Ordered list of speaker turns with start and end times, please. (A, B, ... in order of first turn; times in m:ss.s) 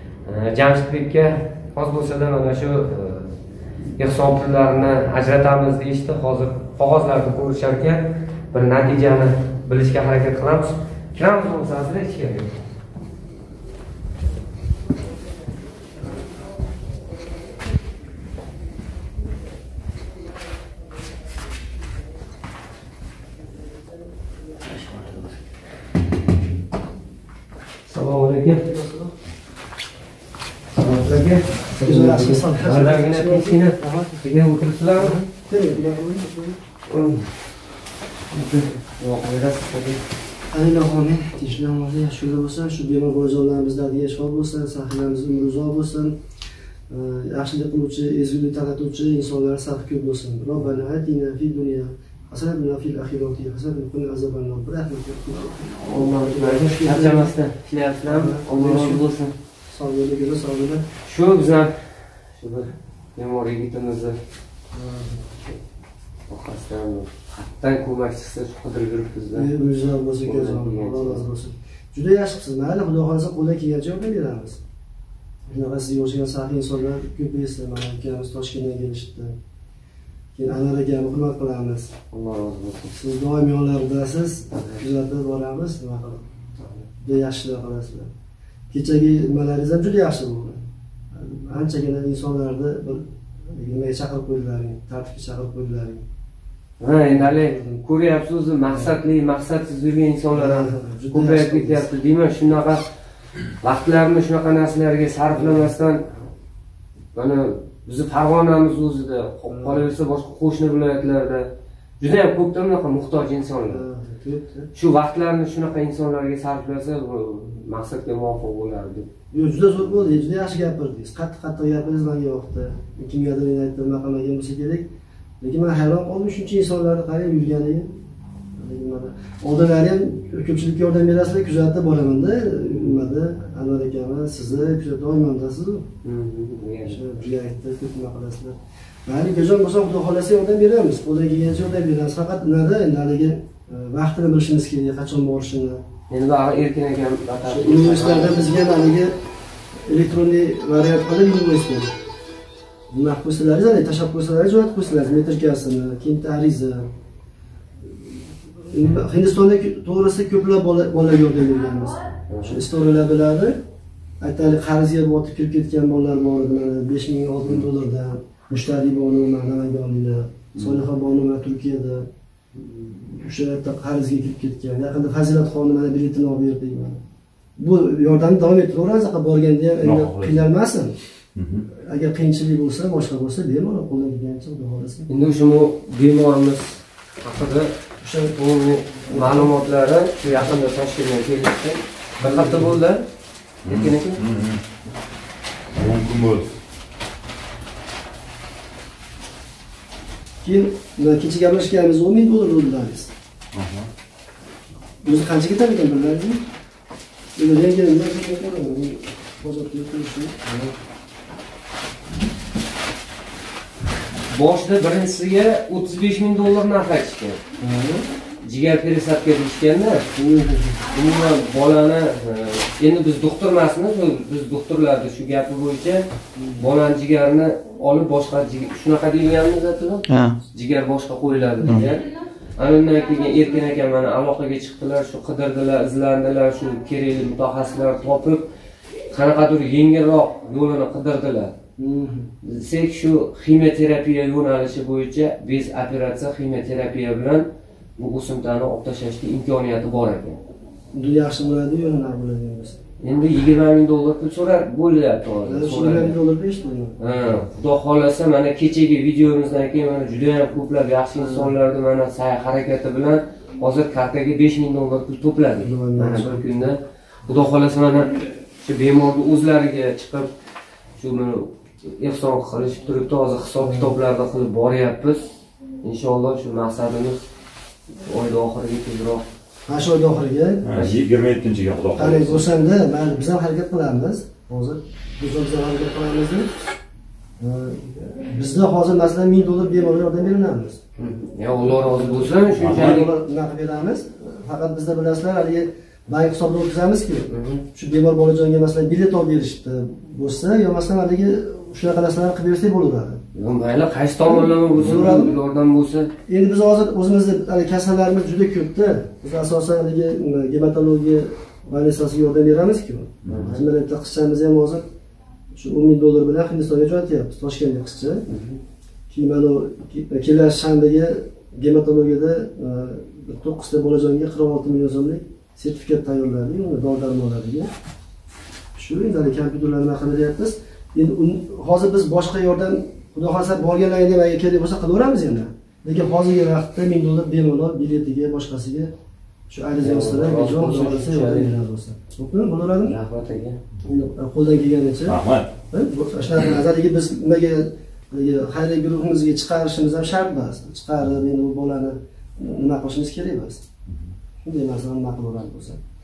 0:00.2-0:03.3 A
0:04.0-0:12.6 A
0:24.8-0:25.1 B
0:27.9-0:28.6 A
0:28.6-0:29.2 B
0:30.8-0:35.2 A
0:31.8-0:34.3 B
0:35.0-0:36.6 B
0:36.9-0:37.3 A
0:38.4-0:40.0 A
0:40.5-0:46.2 B
0:46.9-0:57.3 B
0:55.8-0:59.3 A
0:58.1-0:59.1 B
0:59.7-1:00.8 B
1:01.0-1:01.8 A
1:02.4-1:04.2 A
1:04.7-1:05.2 B
1:06.3-1:09.5 A
1:09.3-1:14.6 B
1:10.2-1:11.2 A
1:15.5-1:19.4 B
1:20.4-1:21.9 B
1:22.1-1:23.0 A
1:22.9-1:26.3 B
1:24.5-1:24.9 A
1:26.9-1:28.1 B
1:28.7-1:36.0 B
1:36.8-1:42.8 A
1:37.1-1:37.8 B
1:40.3-1:41.9 B
1:43.6-1:46.1 A
1:47.2-1:51.5 A
1:49.5-1:49.9 B
1:52.0-1:53.8 A
1:53.7-1:54.7 B
1:54.7-1:59.1 A
1:59.3-2:04.9 B
2:05.4-2:07.9 B
2:08.6-2:15.9 B
2:16.0-2:17.1 A
2:16.8-2:25.8 B
2:26.1-2:28.5 A
2:27.5-2:29.1 B
2:29.9-2:31.9 B
2:32.9-2:36.9 B
2:38.7-2:43.6 B
2:42.3-2:42.6 A
2:44.2-2:52.1 B
2:50.6-2:50.8 A
2:52.7-2:57.0 B
2:57.6-3:01.0 B
2:59.8-3:00.5 C
3:01.4-3:01.6 C
3:01.7-3:05.1 B
3:05.1-3:07.7 A
3:08.0-3:08.3 B
3:08.3-3:13.0 A
3:09.1-3:09.6 B
3:12.2-3:12.8 B
3:13.6-3:14.2 A
3:13.6-3:14.6 C
3:15.8-3:16.5 C
3:20.4-3:23.1 B
3:23.5-3:23.9 C
3:25.0-3:26.4 B
3:27.4-3:30.7 B
3:34.3-3:37.4 A
3:37.6-3:38.0 B
3:38.4-3:40.0 A
3:40.2-3:40.8 B
3:40.9-3:46.0 A
3:46.4-3:46.7 B
3:46.6-3:58.4 A
3:50.1-3:50.4 C
3:51.6-3:51.9 C
3:59.1-4:01.5 A
4:01.8-4:02.3 B
4:02.4-4:07.5 A
4:08.0-4:10.4 A
4:10.9-4:12.8 B
4:13.0-4:16.2 A
4:15.4-4:17.0 B
4:17.0-4:30.3 A
4:21.2-4:21.5 B
4:25.6-4:26.4 B
4:31.0-4:37.2 A
4:33.6-4:33.9 B
4:38.0-4:39.2 A
4:39.7-4:40.7 B
4:40.6-4:42.4 C
4:40.7-4:41.0 A
4:42.0-4:46.5 B
4:47.4-4:50.8 B
4:51.0-4:53.1 A
4:51.6-5:03.2 B
4:52.5-4:53.0 C
4:57.3-4:57.6 A
5:03.3-5:06.1 A
5:04.2-5:05.4 B
5:06.3-5:14.9 B
5:13.3-5:13.6 A
5:15.5-5:18.2 B
5:18.3-5:18.6 A
5:19.1-5:27.7 B
5:28.8-5:38.9 B
5:39.5-5:43.0 B
5:39.8-5:41.5 A
5:42.8-5:43.6 A
5:43.8-5:45.2 B
5:45.0-5:45.5 C
5:45.7-5:53.6 B
5:54.4-5:55.8 B